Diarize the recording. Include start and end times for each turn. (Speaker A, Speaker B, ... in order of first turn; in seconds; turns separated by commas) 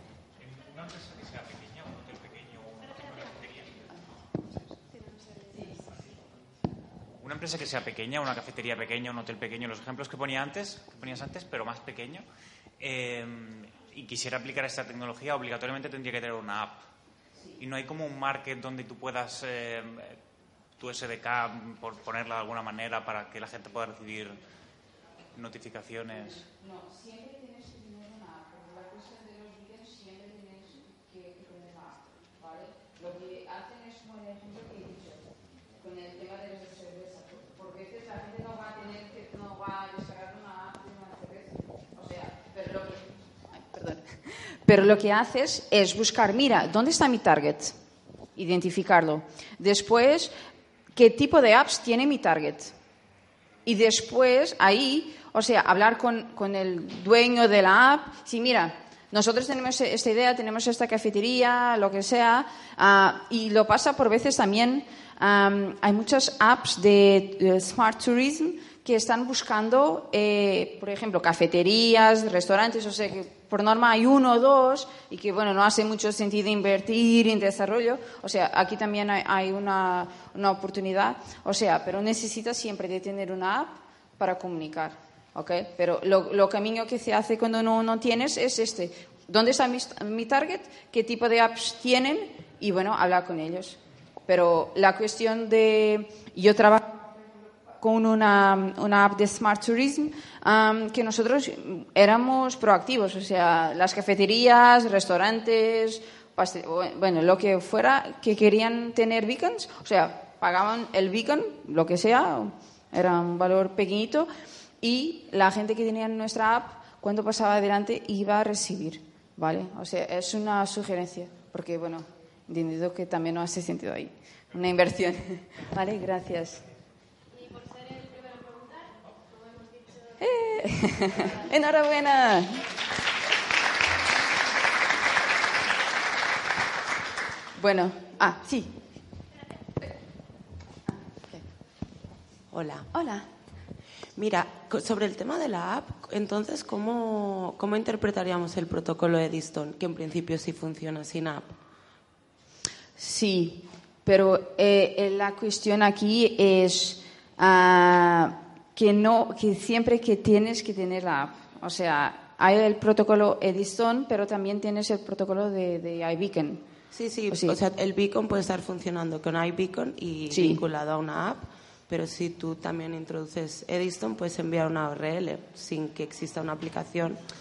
Speaker A: 0.4-3.9, Speaker A: 7.2-12.2, Speaker A: 12.8-16.8, Speaker A: 17.6-20.2, Speaker A: 20.8-24.4, Speaker A: 25.4-26.5, Speaker B: 26.5-35.2, Speaker B: 35.8-47.8, Speaker B: 48.4-50.3, Speaker B: 50.9-52.8, Speaker B: 53.7-114.3, Speaker B: 114.8-126.7, Speaker B: 130.1-132.7, Speaker B: 137.6-138.8, Speaker B: 140.9-141.4, Speaker C: 142.5-142.9, Speaker B: 142.9-143.3, Speaker C: 144.2-151.6, Speaker B: 153.0-166.6, Speaker C: 166.9-177.2, Speaker B: 167.3-167.6, Speaker B: 170.3-170.6